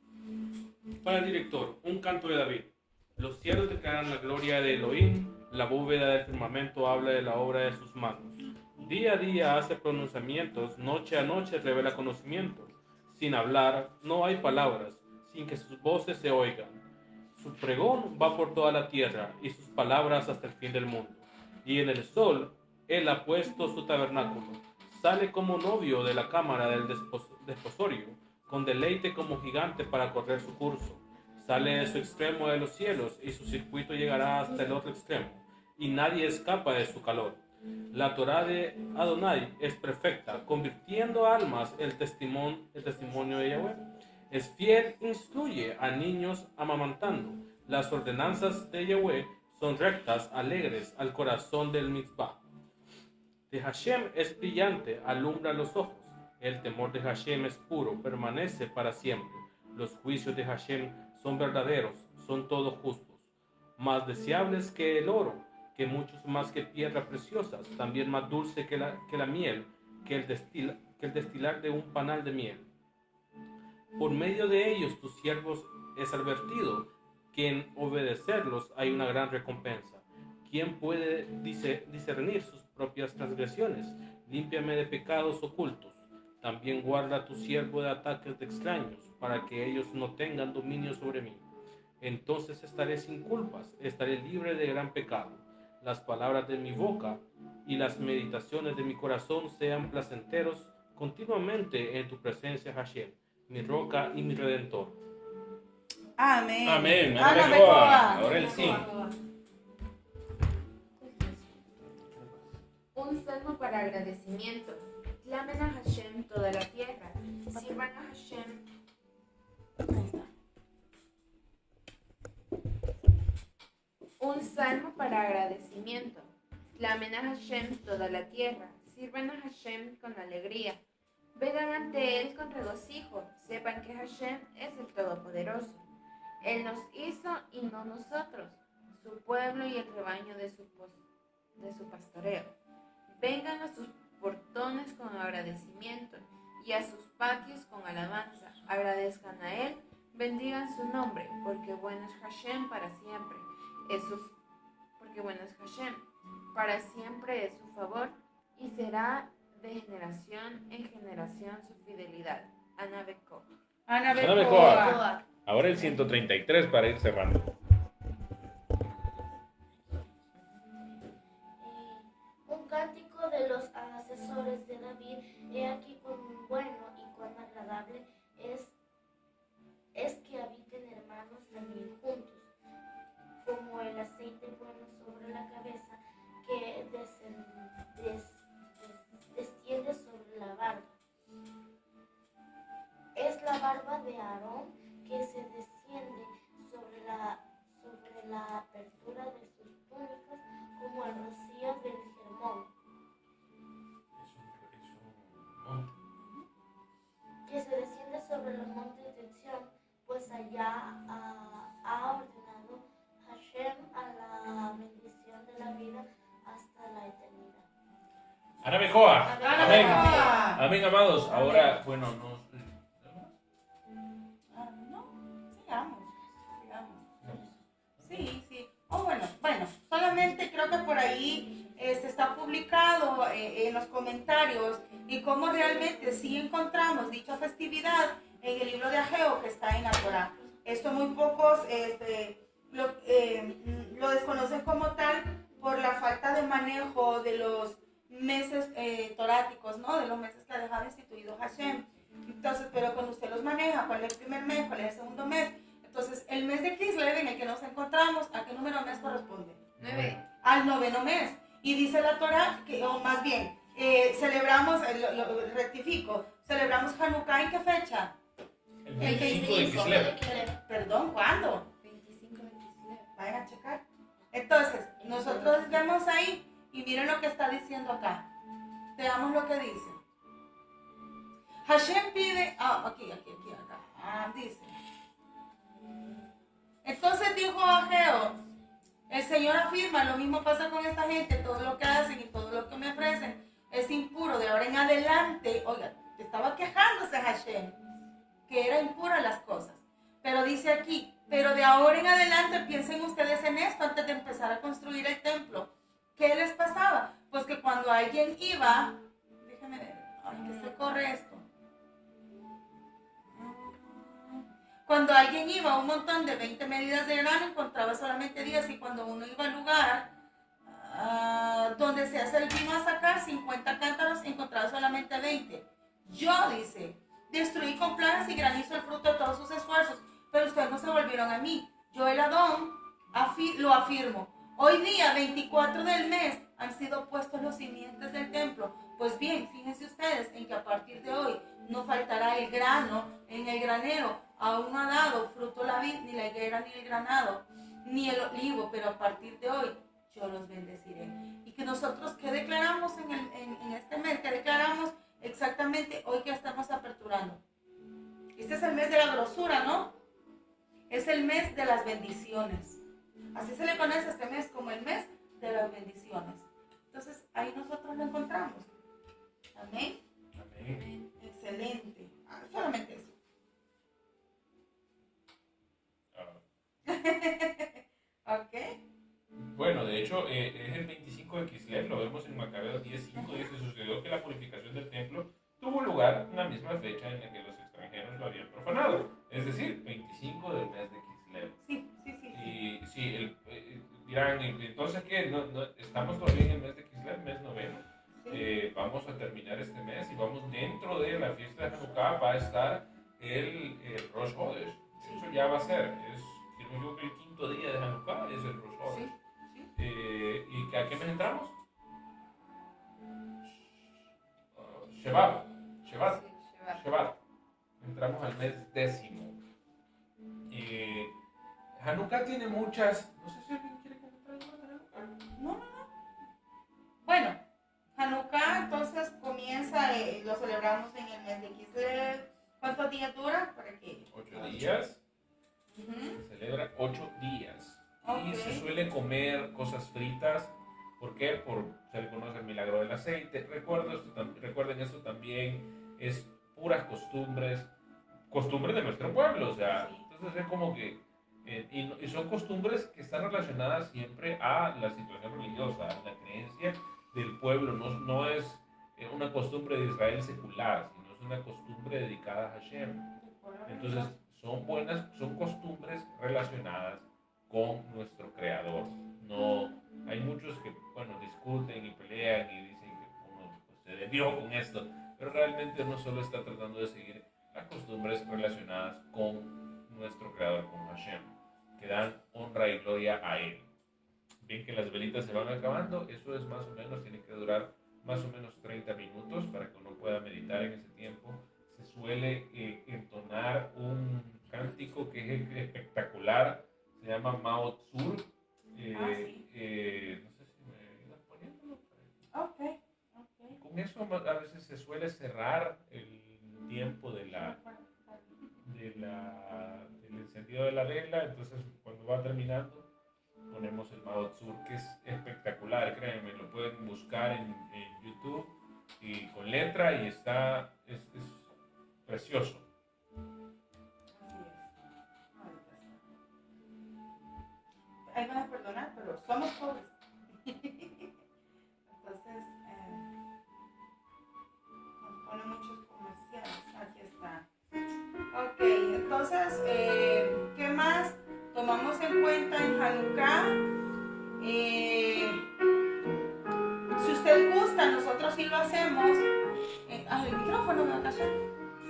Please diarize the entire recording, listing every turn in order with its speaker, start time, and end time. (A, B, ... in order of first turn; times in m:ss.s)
0:01.0-0:16.8 A
0:17.4-0:52.4 A
0:53.5-1:03.2 A
1:03.8-1:12.7 A
1:14.0-1:31.5 A
1:32.0-1:45.0 A
1:46.2-1:48.7 B
1:46.6-1:48.9 C
1:47.3-1:49.2 D
1:51.0-1:51.6 D
1:52.9-1:58.6 D
1:57.5-1:57.8 B
1:59.8-2:00.3 B
2:04.2-2:10.8 D
2:11.4-2:15.8 D
2:16.4-2:21.0 D
2:21.6-2:22.6 D
2:23.1-2:34.4 D
2:35.0-2:43.5 D
2:43.9-2:45.0 B
2:44.2-2:47.5 C
2:44.3-2:45.3 E
2:51.6-2:58.7 E
3:00.0-3:02.5 E
3:03.4-3:11.0 E
3:13.2-3:22.7 E
3:24.2-3:26.0 C
3:26.2-3:26.5 B
3:27.5-3:37.7 E
3:38.6-3:43.3 C
3:39.2-3:40.4 E
3:39.4-3:40.6 B
3:41.3-3:41.6 B
3:44.5-3:47.0 B
3:47.2-3:48.1 C
3:48.0-4:19.6 B
4:19.8-4:20.2 D
4:19.8-4:20.2 C
4:20.4-4:28.2 B
4:28.8-4:30.4 C
4:29.0-4:30.6 E
4:29.0-4:31.7 B
4:31.8-4:33.1 D
4:33.2-4:38.3 B
4:35.0-4:35.8 E
4:39.0-4:40.0 B
4:41.7-4:44.8 B
4:46.8-4:48.4 B
4:49.1-4:57.8 B
4:58.5-5:11.4 B
5:10.3-5:10.7 D
5:13.3-5:20.1 B
5:20.7-5:57.4 B
5:58.4-6:00.0 B
6:00.9-6:02.8 B
6:03.4-6:08.7 B
6:09.6-6:10.0 B
6:10.4-6:10.9 C
6:10.7-6:11.1 D
6:11.2-6:13.2 B
6:16.1-6:16.4 C
6:16.9-6:18.8 B
6:19.5-6:31.6 C
6:23.2-6:23.5 B
6:31.6-6:32.6 B
6:32.3-6:49.2 C
6:38.2-6:38.5 B
6:48.9-6:49.1 D
6:49.8-6:51.6 C
6:54.6-6:57.2 C
6:56.0-6:56.9 D
6:57.8-6:59.4 C
7:00.5-7:01.2 C
7:01.8-7:05.2 C
7:05.4-7:05.9 B
7:07.0-7:07.4 B
7:08.0-7:14.7 B
7:14.1-7:15.0 C
7:15.7-7:16.2 B
7:16.2-7:27.7 C
7:18.0-7:18.7 B
7:28.3-7:43.2 C
7:29.7-7:30.0 B
7:43.2-7:44.1 B
7:43.7-8:03.7 C
8:04.4-8:22.1 C
8:18.9-8:19.4 B
8:22.3-8:23.6 B
8:23.5-8:27.6 C
8:27.3-8:28.4 B
8:28.6-8:32.9 C
8:33.5-8:41.5 C
8:42.1-8:42.7 C
8:44.2-8:44.7 B
8:45.3-8:46.0 B
8:48.1-8:49.9 B
8:50.4-8:51.1 B
8:51.9-8:53.0 B
8:55.0-8:57.5 B
8:58.3-9:03.6 B
9:04.4-9:05.4 B
9:07.0-9:09.3 B
9:09.9-9:11.4 B